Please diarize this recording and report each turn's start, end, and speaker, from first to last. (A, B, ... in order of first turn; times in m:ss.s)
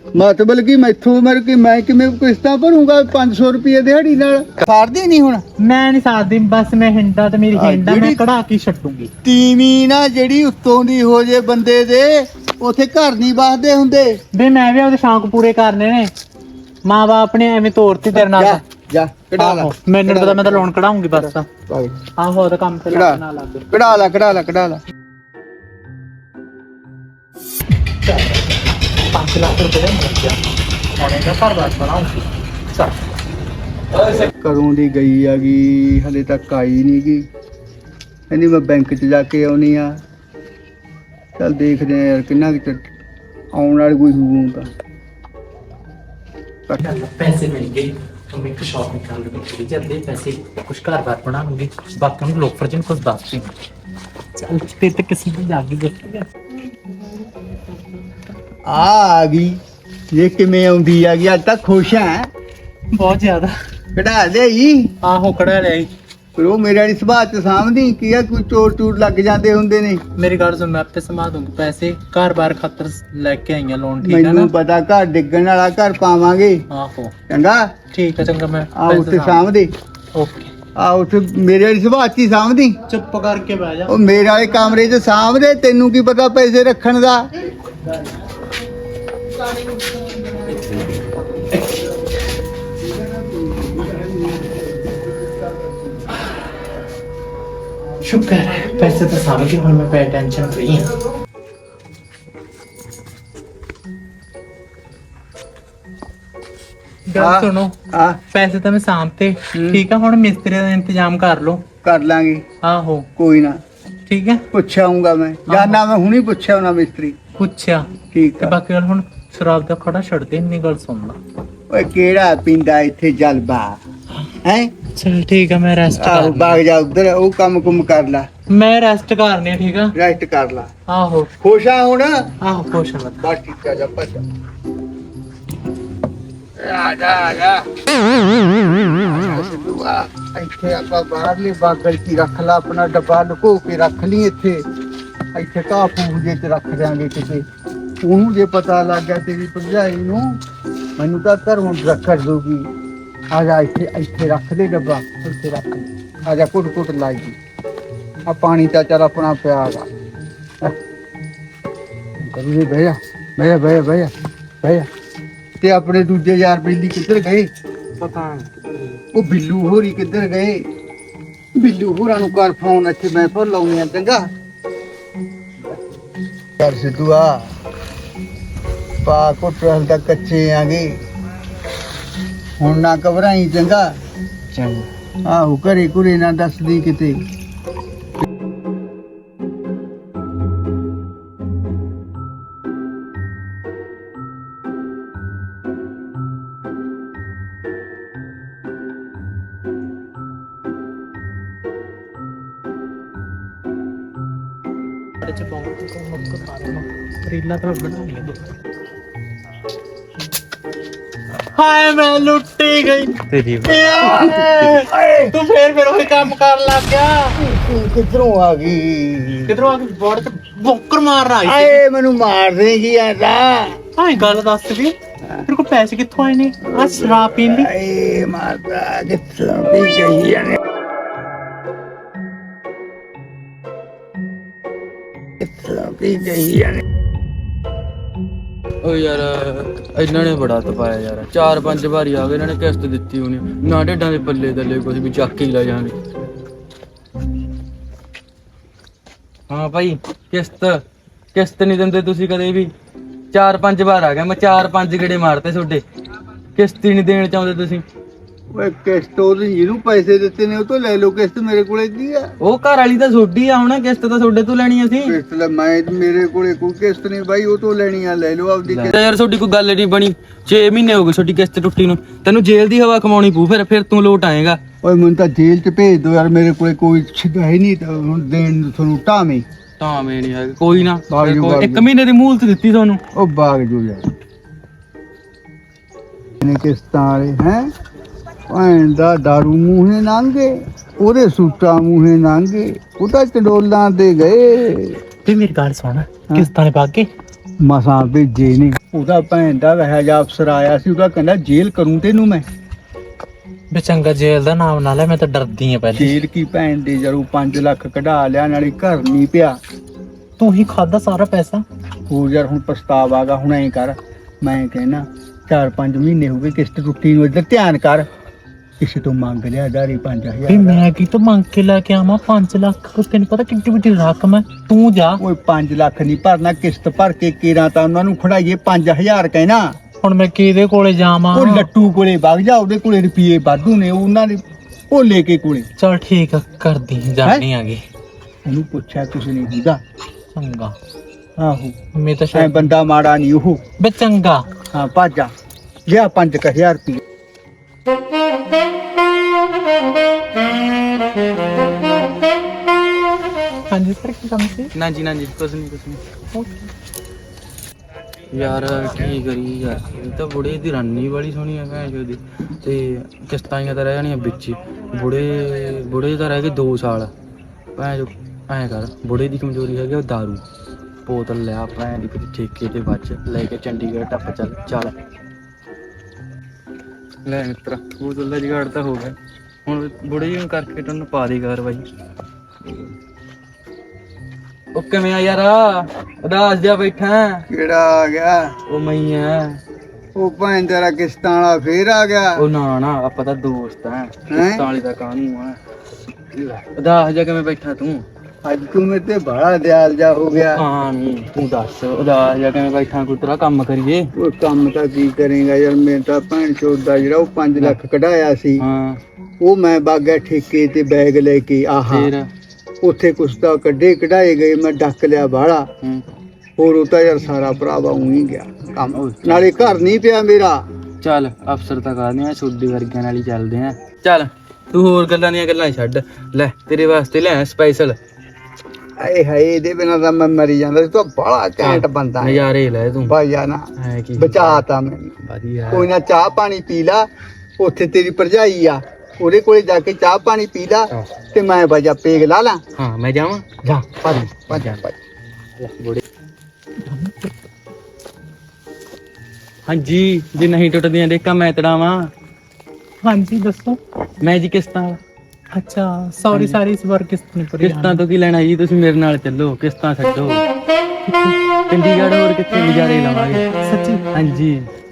0:00.2-0:05.4 A
0:05.6-0:09.1 B
0:07.5-0:08.2 A
0:09.2-0:14.2 A
0:14.3-0:16.1 B
0:16.8-0:18.6 B
0:18.2-0:22.0 A
0:19.4-0:21.5 B
0:22.2-0:23.8 B
0:22.9-0:23.2 A
0:23.7-0:24.8 A
0:28.0-0:28.6 B
0:29.1-0:30.4 B
0:31.0-0:33.0 B
0:34.0-0:37.3 A
0:38.3-0:40.0 A
0:41.4-0:42.8 A
0:43.5-0:44.7 A
0:46.8-0:53.5 B
0:54.4-0:56.3 B
0:58.7-0:59.6 A
1:00.1-1:02.3 A
1:02.9-1:03.5 B
1:03.9-1:04.9 A
1:05.0-1:05.9 B
1:06.4-1:10.0 A
1:10.2-1:14.5 B
1:14.0-1:16.6 A
1:16.7-1:17.1 B
1:17.3-1:17.7 A
1:17.9-1:19.4 B
1:18.8-1:19.7 A
1:20.2-1:20.5 B
1:20.8-1:22.8 A
1:22.9-1:23.9 B
1:23.9-1:27.3 A
1:30.5-1:30.8 C
1:32.9-1:36.1 A
1:38.0-1:40.9 B
1:47.1-1:47.8 B
1:47.2-1:48.2 A
1:48.3-1:51.6 B
1:49.5-1:49.8 A
1:51.8-1:52.4 A
1:52.6-1:53.1 B
1:53.2-1:53.6 A
1:54.1-1:54.4 B
1:54.5-1:57.2 A
1:55.5-1:55.8 B
1:57.4-1:57.9 B
1:58.1-1:58.6 A
1:58.4-2:01.2 B
2:01.7-2:03.8 A
2:04.4-2:04.7 A
2:05.0-2:06.6 B
2:06.0-2:08.3 A
2:08.5-2:09.9 B
2:10.0-2:10.7 A
2:10.9-2:11.3 B
2:11.4-2:12.3 A
2:12.4-2:13.2 B
2:13.2-2:14.2 A
2:16.6-2:17.7 A
2:18.6-2:24.7 A
2:25.4-2:27.4 A
2:28.0-2:30.4 A
2:31.0-2:32.7 A
2:33.3-2:37.4 A
2:35.4-2:35.8 B
2:38.3-2:39.9 A
2:42.2-2:44.9 A
2:45.6-2:47.5 A
2:48.0-2:49.0 C
2:49.1-2:50.7 A
2:51.6-2:54.3 A
2:56.6-2:57.4 A
2:59.0-3:00.9 A
3:02.6-3:03.9 A
3:04.5-3:04.9 C
3:05.2-3:07.2 A
3:25.2-3:28.5 B
3:31.4-3:37.4 B
3:33.3-3:34.3 C
3:34.0-3:35.3 A
3:37.4-3:39.6 A
3:39.5-3:41.8 B
3:41.4-3:43.8 A
3:44.0-3:47.7 B
3:46.6-3:50.6 A
3:55.4-3:56.8 A
3:58.8-4:06.0 C
4:09.5-4:10.8 C
4:11.3-4:12.7 C
4:13.3-4:15.8 C
4:16.6-4:17.8 C
4:18.5-4:22.3 A
4:22.4-4:25.2 C
4:25.1-4:29.0 A
4:28.7-4:34.6 C
4:34.8-4:39.4 A
4:39.8-4:43.0 C
4:41.1-4:41.8 A
4:43.1-4:44.0 A
4:46.4-4:47.7 A
4:48.5-4:55.0 A
4:55.2-4:57.1 B
4:57.6-5:02.4 A
5:03.7-5:06.2 B
5:06.0-5:09.6 A
5:10.4-5:11.6 B
5:12.1-5:18.1 A
5:18.8-5:20.8 A
5:20.5-5:25.2 B
5:25.2-5:29.7 A
5:30.0-5:31.7 B
5:31.3-5:35.7 A
5:35.8-5:37.8 B
5:38.5-5:39.8 A
5:40.4-5:40.8 B
5:41.4-5:41.8 A
5:42.0-5:42.7 B
5:42.3-5:43.6 A
5:43.8-5:44.5 B
5:44.7-5:45.3 A
5:45.9-5:47.0 A
5:53.7-5:54.7 B
5:54.7-5:56.0 C
5:58.3-6:07.1 C
6:07.8-6:10.4 C
6:11.0-6:15.0 C
6:17.2-6:21.9 C
6:22.6-6:22.9 C
6:24.7-6:27.4 C
6:27.5-6:28.5 A
6:28.7-6:29.6 C
6:30.2-6:32.4 A
6:32.4-6:35.6 C
6:34.3-6:34.7 A
6:36.3-6:38.0 C
6:38.4-6:40.6 A
6:40.4-6:44.1 C
6:44.2-6:48.6 A
6:48.6-6:49.0 C
6:49.4-6:52.1 A
6:51.9-6:52.3 C
6:52.8-6:55.7 A
6:56.6-7:00.6 A
6:58.9-6:59.8 C
7:01.0-7:08.0 C
7:09.0-7:12.5 A
7:11.6-7:13.2 C
7:13.0-7:15.2 A
7:13.8-7:14.6 C
7:15.2-7:15.9 C
7:15.7-7:17.1 A
7:17.6-7:22.6 A
7:22.8-7:23.5 C
7:23.6-7:24.9 A
7:24.3-7:24.8 C
7:25.6-7:26.0 C
7:26.8-7:27.3 B
7:29.7-7:32.1 C
7:33.0-7:33.8 B
7:34.2-7:35.0 C
7:35.5-7:38.0 B
7:36.3-7:36.6 C
7:37.6-7:40.5 C
7:41.1-7:41.4 B
7:41.7-7:43.5 C
7:43.6-7:44.2 B
7:44.1-7:44.7 C